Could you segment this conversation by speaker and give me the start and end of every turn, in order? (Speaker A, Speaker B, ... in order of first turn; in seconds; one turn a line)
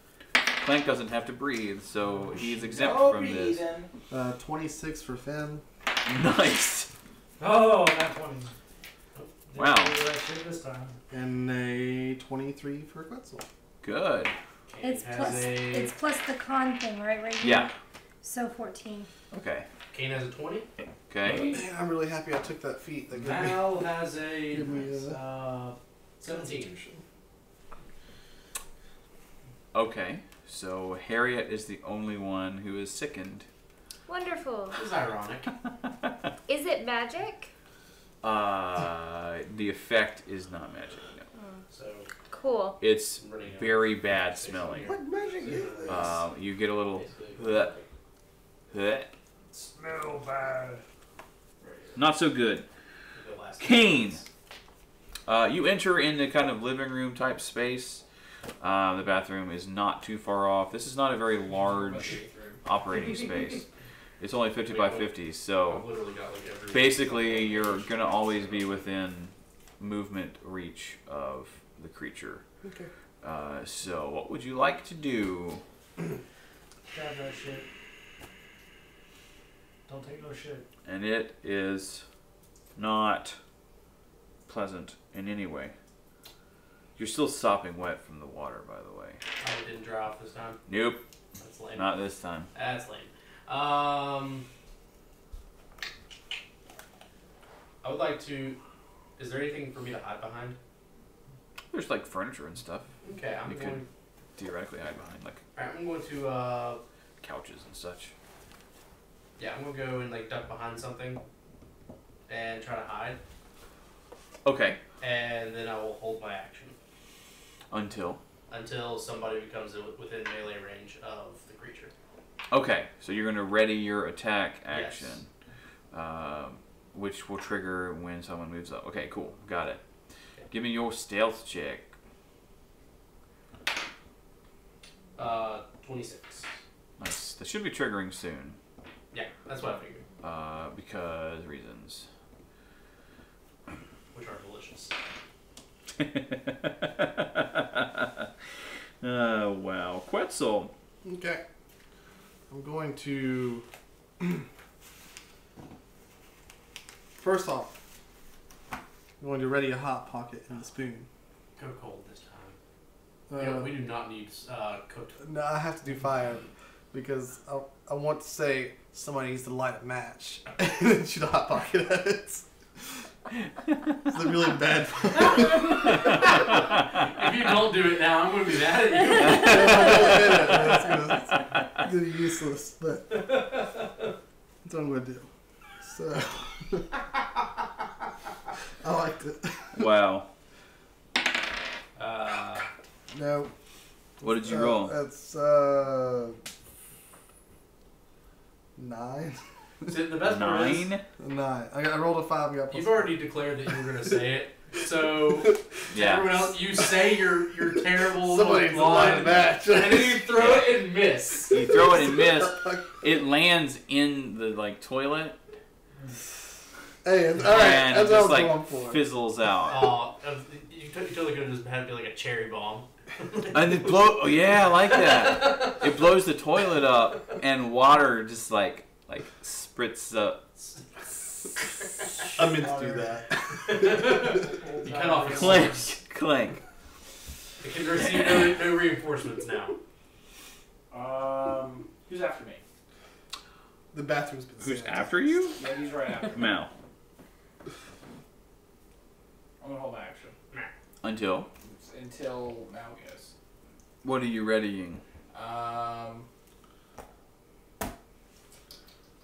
Speaker A: 0.6-3.6
Speaker B: 2.5-3.9
Speaker C: 4.1-5.6
Speaker A: 6.0-6.9
Speaker D: 7.4-8.5
Speaker D: 9.5-11.0
Speaker A: 9.6-9.9
Speaker C: 11.1-13.4
Speaker A: 13.8-14.4
Speaker E: 14.7-15.9
Speaker F: 14.8-17.7
Speaker A: 17.4-17.7
Speaker F: 18.2-19.1
Speaker A: 19.3-19.7
Speaker E: 19.9-20.7
Speaker A: 21.1-21.6
Speaker C: 21.2-23.7
Speaker E: 23.1-26.8
Speaker C: 24.5-25.2
Speaker C: 26.3-27.0
Speaker A: 29.7-33.5
Speaker F: 34.1-34.8
Speaker E: 34.7-35.5
Speaker F: 36.5-37.5
Speaker A: 38.2-41.2
Speaker F: 41.3-41.6
Speaker E: 41.7-42.1
Speaker F: 42.3-42.8
Speaker A: 42.8-44.9
Speaker E: 43.2-46.1
Speaker C: 44.8-46.2
Speaker A: 45.9-47.8
Speaker E: 46.9-47.8
Speaker A: 48.7-49.1
Speaker D: 49.5-50.8
Speaker B: 51.6-52.0
Speaker A: 51.9-52.7
Speaker E: 53.1-54.3
Speaker A: 53.6-54.2
Speaker A: 55.2-58.0
Speaker A: 58.6-63.7
Speaker B: 61.6-62.6
Speaker A: 64.2-65.8
Speaker E: 64.7-68.6
Speaker A: 66.7-72.4
Speaker C: 72.6-72.9
Speaker A: 73.2-75.6
Speaker D: 76.9-77.7
Speaker D: 79.9-80.6
Speaker A: 80.8-82.0
Speaker A: 82.8-83.4
Speaker A: 84.5-85.7
Speaker A: 87.0-89.2
Speaker E: 89.4-90.6
Speaker A: 90.7-91.0
Speaker E: 91.4-91.9
Speaker A: 91.7-92.5
Speaker E: 92.5-94.5
Speaker E: 97.8-98.6
Speaker E: 99.2-100.6
Speaker A: 101.7-102.9
Speaker E: 103.0-103.8
Speaker A: 103.5-103.8
Speaker A: 104.3-105.4
Speaker E: 105.5-106.8
Speaker A: 107.2-108.1
Speaker E: 109.4-111.2
Speaker E: 112.3-113.2
Speaker A: 114.4-114.8
Speaker E: 115.0-116.8
Speaker A: 117.7-118.2
Speaker E: 118.5-121.9
Speaker A: 122.5-125.3
Speaker E: 124.7-125.2
Speaker A: 125.9-129.8
Speaker A: 130.5-131.9
Speaker E: 135.2-136.5
Speaker A: 137.0-138.6
Speaker E: 139.1-140.0
Speaker A: 140.2-142.1
Speaker E: 144.1-144.9
Speaker A: 146.0-148.3
Speaker A: 149.0-150.7
Speaker C: 151.0-151.4
Speaker C: 152.5-153.7
Speaker C: 154.2-154.5
Speaker C: 157.2-157.7
Speaker C: 159.2-161.1
Speaker E: 161.6-162.6
Speaker C: 163.3-163.7
Speaker E: 163.3-165.2
Speaker C: 165.2-172.4
Speaker C: 174.1-176.1
Speaker E: 177.0-180.5
Speaker A: 179.2-180.1
Speaker C: 179.3-183.2
Speaker E: 183.1-183.9
Speaker C: 184.6-185.3
Speaker C: 185.8-186.9
Speaker C: 188.8-189.9
Speaker A: 189.7-190.3
Speaker E: 191.9-192.7
Speaker C: 193.1-193.5
Speaker A: 194.2-194.9
Speaker C: 194.2-196.4
Speaker C: 198.8-199.9
Speaker E: 199.9-200.9
Speaker A: 200.2-201.0
Speaker C: 201.2-203.1
Speaker E: 202.7-211.6
Speaker C: 205.3-207.2
Speaker A: 205.9-206.4
Speaker C: 207.8-210.3
Speaker A: 210.3-210.8
Speaker A: 211.5-215.4
Speaker C: 211.5-212.9
Speaker C: 217.0-219.0
Speaker A: 217.4-219.9
Speaker E: 219.7-223.9
Speaker A: 223.5-230.5
Speaker E: 224.9-225.8
Speaker E: 232.1-232.4
Speaker C: 232.3-234.2
Speaker D: 232.5-233.2
Speaker E: 233.6-235.8
Speaker D: 233.9-235.8
Speaker A: 235.3-236.6
Speaker E: 237.6-239.8
Speaker B: 240.9-242.6
Speaker C: 243.9-245.3
Speaker A: 244.6-245.6
Speaker B: 245.6-246.4
Speaker A: 246.3-246.7
Speaker B: 249.6-250.3
Speaker A: 251.0-251.5
Speaker B: 251.6-253.3
Speaker A: 254.0-255.0
Speaker B: 255.3-256.3